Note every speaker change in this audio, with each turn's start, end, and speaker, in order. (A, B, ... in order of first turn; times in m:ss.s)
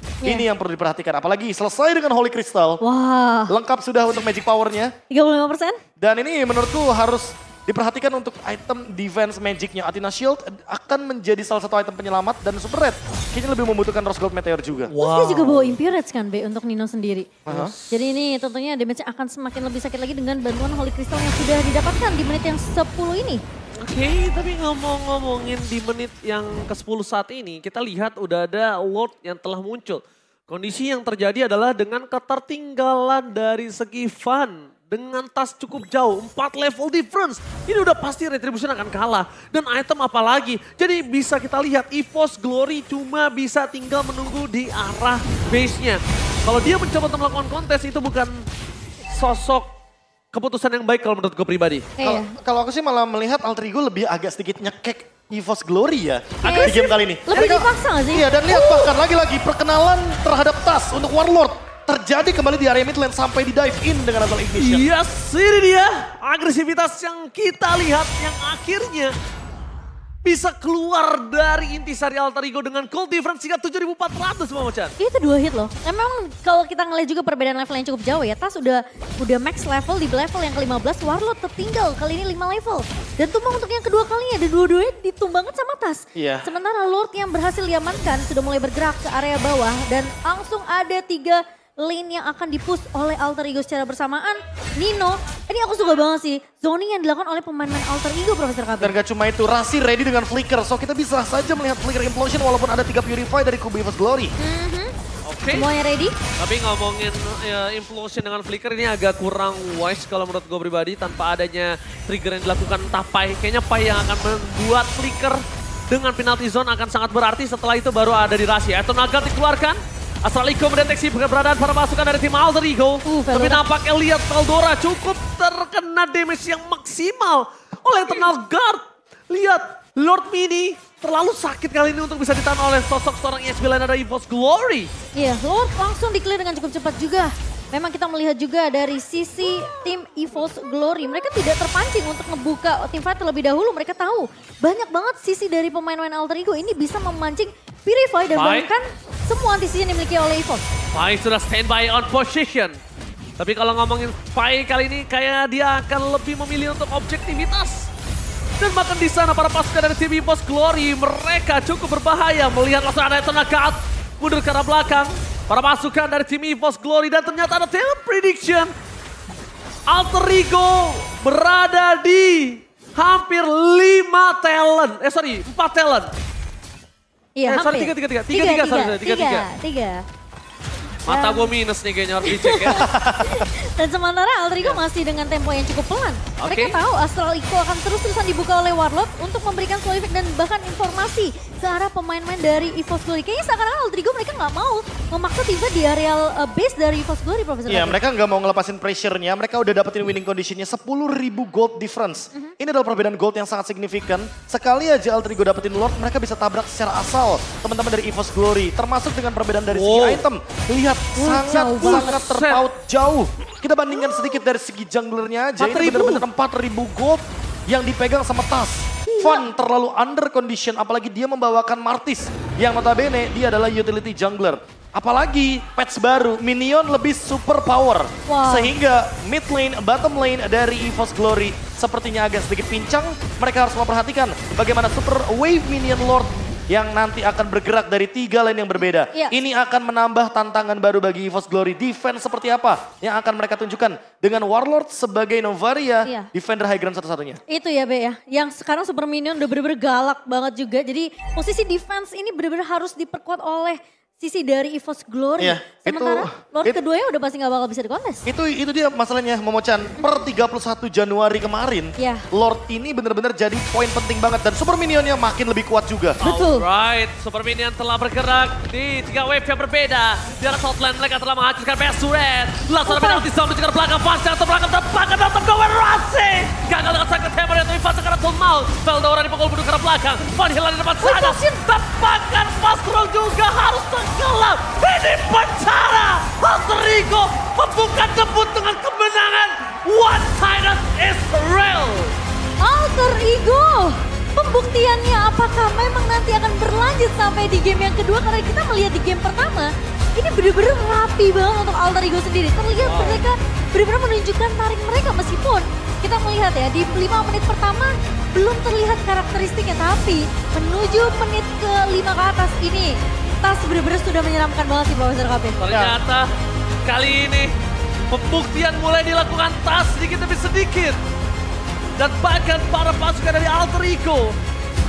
0:00.2-0:02.8 A
0:02.8-0:03.6 B
0:03.5-0:04.9 A
0:05.1-0:05.8 B
0:06.0-0:14.9 A
0:14.9-0:15.8 C
0:15.0-0:23.4 B
0:17.5-0:17.7 A
0:17.5-0:18.0 C
0:23.8-0:48.5 C
0:49.1-0:49.7 C
0:50.3-0:52.0 C
0:52.0-0:52.3 B
0:52.0-1:04.9 A
0:56.4-0:58.9 B
1:04.6-1:09.1 C
1:10.2-1:14.9 C
1:15.0-1:39.0 B
1:26.1-1:26.4 A
1:38.8-1:44.3 A
1:44.4-1:44.9 B
1:45.2-1:45.7 C
1:45.5-1:46.1 B
1:46.3-1:55.4 C
1:55.9-2:14.9 C
2:03.0-2:03.6 B
2:15.1-2:30.6 B
2:28.3-2:28.7 C
2:30.9-2:32.8 C
2:33.4-2:37.9 C
2:38.6-2:48.7 C
2:49.9-2:56.1 C
2:57.4-3:00.0 B
2:57.4-2:59.4 C
3:01.0-3:02.9 C
3:01.1-3:01.5 B
3:02.2-3:18.0 B
3:02.6-3:03.5 A
3:06.4-3:06.8 C
3:17.7-4:07.4 A
3:29.7-3:30.2 C
3:31.2-3:32.2 B
3:31.7-3:32.6 C
3:35.6-3:36.2 C
3:39.1-3:39.5 B
3:48.3-3:48.7 B
3:59.1-3:59.4 B
4:07.5-4:18.3 B
4:15.4-4:16.8 A
4:18.2-4:26.2 A
4:20.0-4:20.3 B
4:22.0-4:22.2 B
4:26.2-4:52.2 C
4:26.2-4:26.6 B
4:32.8-4:33.3 B
4:41.0-4:41.6 B
4:52.6-5:15.6 B
5:02.8-5:03.2 C
5:15.6-5:16.3 C
5:15.7-5:16.0 A
5:16.8-5:17.5 C
5:18.1-5:21.0 C
5:22.0-5:24.4 C